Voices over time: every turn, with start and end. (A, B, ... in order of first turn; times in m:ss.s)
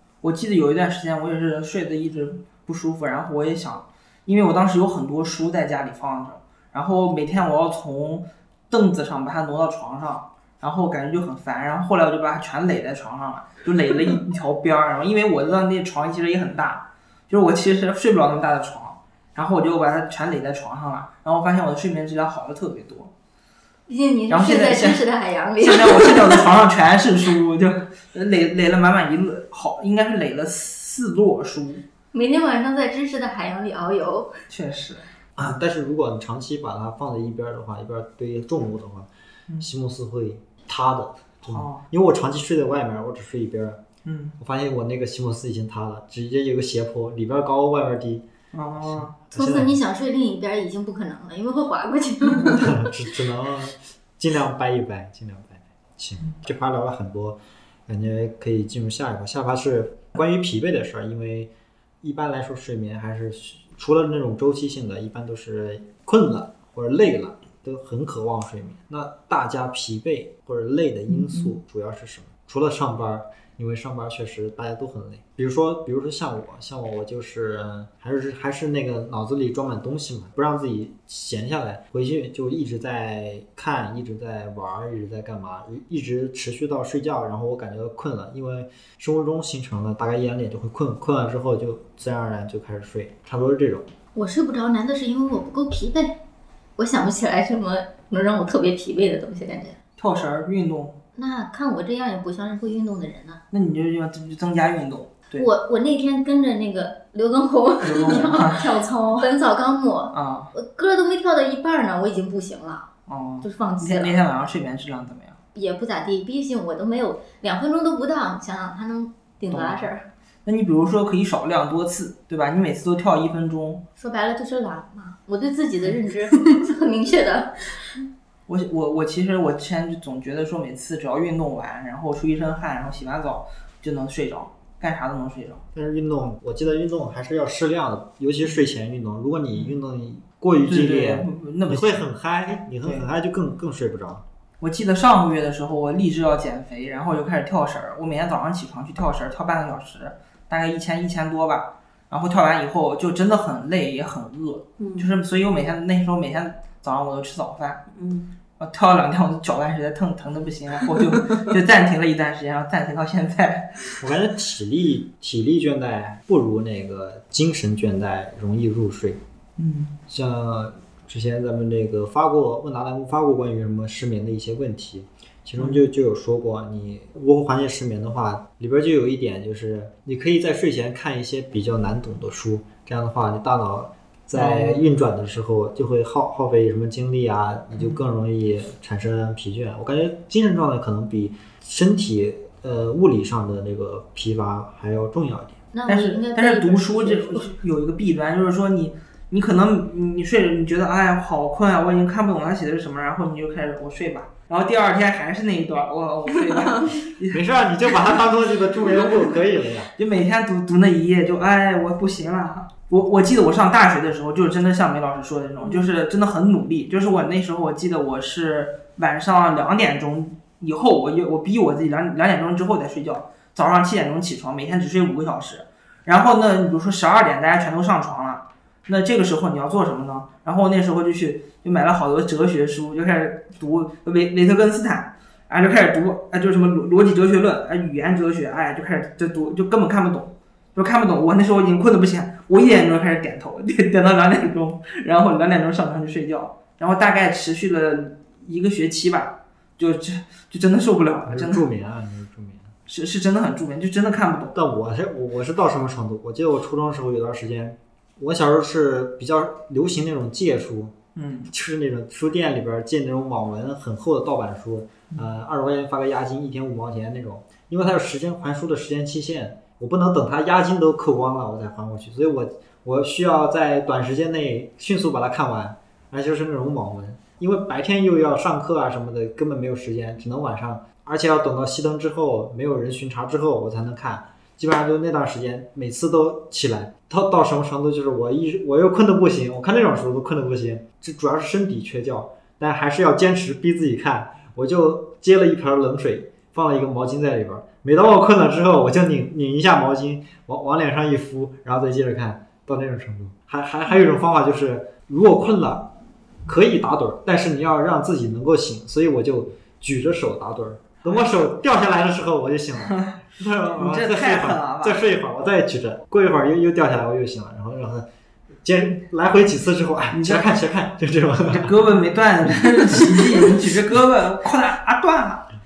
0:00.2-0:23.1 A
0:23.9-0:26.4 B
0:24.3-0:25.0 A
0:25.6-0:31.8 A
0:32.1-0:34.4 B
0:34.5-0:35.1 A
0:35.4-0:39.1 C
0:39.6-0:43.8 C
0:41.5-0:41.8 A
0:44.0-0:44.4 A
0:44.4-0:48.2 C
0:48.5-0:49.2 A
0:48.8-0:49.8 C
0:49.3-0:52.8 B
0:52.5-1:01.5 C
1:02.0-1:33.9 C
1:11.1-1:11.5 A
1:34.1-1:36.2 B
1:36.8-1:39.8 B
1:40.0-1:41.0 A
1:41.1-1:43.4 B
1:43.5-1:45.5 A
1:45.3-1:52.9 B
1:47.8-1:48.7 A
1:48.1-1:49.3 D
1:50.1-1:50.5 A
1:53.1-1:55.4 A
1:53.4-1:54.2 B
1:55.5-2:00.0 B
1:59.5-1:59.9 A
2:00.4-2:03.8 A
2:04.0-2:07.9 B
2:08.5-2:15.6 A
2:15.7-2:24.2 C
2:20.6-2:22.0 A
2:24.6-2:37.8 A
2:34.8-2:35.1 D
2:37.9-2:38.3 D
2:38.6-2:44.0 A
2:44.0-2:49.2 C
2:49.6-2:49.9 A
2:50.1-3:15.6 C
2:55.6-2:55.8 A
3:04.3-3:04.8 A
3:15.7-3:17.5 B
3:15.8-3:27.4 A
3:27.3-3:29.9 C
3:30.0-4:11.6 A
4:11.3-4:12.7 C
4:12.9-4:14.5 A
4:14.5-4:20.9 C
4:21.2-4:21.5 A
4:21.5-5:05.9 C
5:06.4-5:18.0 C
5:11.0-5:11.3 A
5:12.9-5:15.0 A
5:18.6-5:21.8 C
5:20.1-5:20.5 A
5:21.4-5:25.5 A